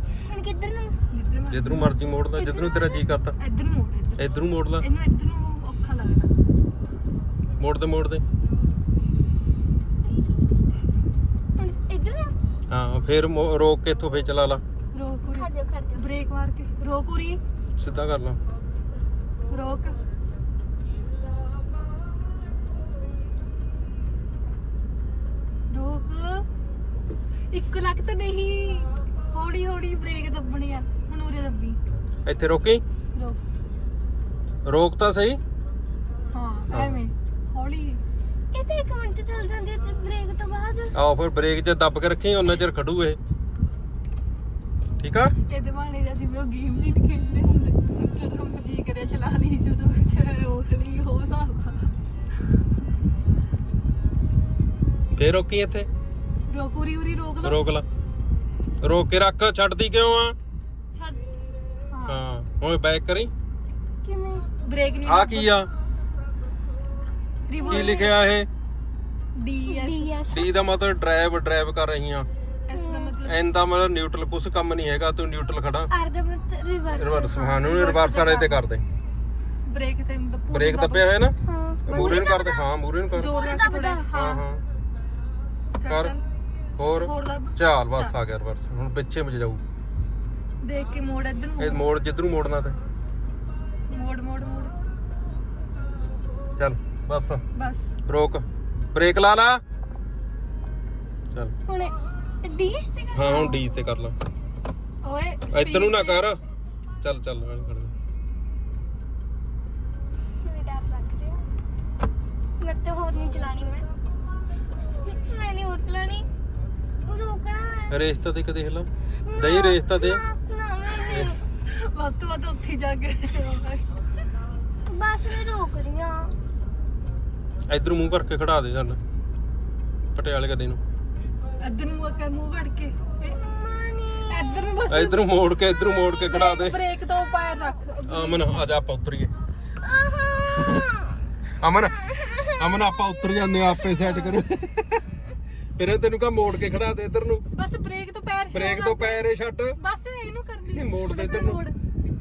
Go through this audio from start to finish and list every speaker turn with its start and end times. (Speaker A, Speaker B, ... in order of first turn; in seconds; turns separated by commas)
Speaker A: 0.2-1.0, Speaker B: 1.1-2.0, Speaker C: 1.5-3.4, Speaker A: 2.4-3.1, Speaker B: 3.4-4.2, Speaker C: 4.2-4.8, Speaker B: 4.8-6.3, Speaker C: 7.6-8.2, Speaker A: 10.1-10.7, Speaker A: 11.6-12.3, Speaker C: 12.7-14.6, Speaker B: 14.9-17.4, Speaker A: 15.3-16.1, Speaker C: 17.8-18.4, Speaker B: 19.5-20.0, Speaker B: 25.7-26.5, Speaker B: 27.5-31.8, Speaker C: 32.2-32.8, Speaker B: 33.1-33.4, Speaker C: 34.6-35.4, Speaker B: 36.3-38.0, Speaker C: 36.7-37.0, Speaker A: 38.5-41.0, Speaker C: 40.9-43.2, Speaker C: 45.0-45.3, Speaker B: 45.5-51.9, Speaker C: 55.1-55.9, Speaker B: 56.5-57.6, Speaker C: 57.4-57.9, Speaker C: 58.8-60.4, Speaker B: 60.9-61.2, Speaker B: 61.9-62.2, Speaker C: 62.1-63.3, Speaker A: 64.0-64.5, Speaker B: 64.6-65.5, Speaker C: 65.1-65.7, Speaker B: 67.5-68.1, Speaker A: 67.6-68.2, Speaker C: 67.7-68.5, Speaker B: 69.3-70.1, Speaker A: 69.7-70.5, Speaker C: 70.3-72.3, Speaker B: 72.7-73.5, Speaker A: 72.7-73.2, Speaker C: 73.2-75.9, Speaker A: 75.9-77.6, Speaker C: 76.9-78.9, Speaker B: 77.6-78.6, Speaker B: 79.7-81.1, Speaker C: 80.5-83.3, Speaker A: 81.4-82.7, Speaker B: 81.9-82.2, Speaker B: 83.1-84.5, Speaker A: 83.2-84.3, Speaker C: 84.1-84.7, Speaker B: 85.8-86.2, Speaker C: 85.9-86.2, Speaker C: 86.8-89.6, Speaker B: 86.9-88.1, Speaker B: 90.6-91.8, Speaker C: 91.6-92.8, Speaker B: 93.9-94.8, Speaker C: 96.6-97.4, Speaker B: 97.5-97.9, Speaker C: 98.1-99.6, Speaker A: 101.7-103.4, Speaker C: 103.1-104.2, Speaker B: 103.2-103.7, Speaker B: 105.0-106.2, Speaker C: 105.5-106.4, Speaker C: 107.0-107.9, Speaker A: 110.4-111.4, Speaker A: 112.6-113.9, Speaker A: 115.0-116.3, Speaker A: 117.1-118.0, Speaker C: 117.9-120.2, Speaker A: 119.2-121.4, Speaker C: 121.0-121.4, Speaker B: 121.7-123.9, Speaker A: 124.9-126.4, Speaker C: 127.7-129.0, Speaker C: 130.2-130.8, Speaker B: 131.6-133.4, Speaker A: 133.3-134.6, Speaker B: 134.3-135.4, Speaker C: 134.9-136.8, Speaker A: 135.5-136.6, Speaker B: 136.3-138.7, Speaker A: 137.1-137.8, Speaker C: 138.1-139.3, Speaker A: 139.8-141.2, Speaker C: 140.6-140.9, Speaker C: 141.6-142.0, Speaker A: 142.0-144.1, Speaker C: 142.6-145.0, Speaker C: 145.8-147.4, Speaker B: 147.5-149.2, Speaker C: 148.5-149.8, Speaker B: 149.8-151.8, Speaker C: 150.7-151.6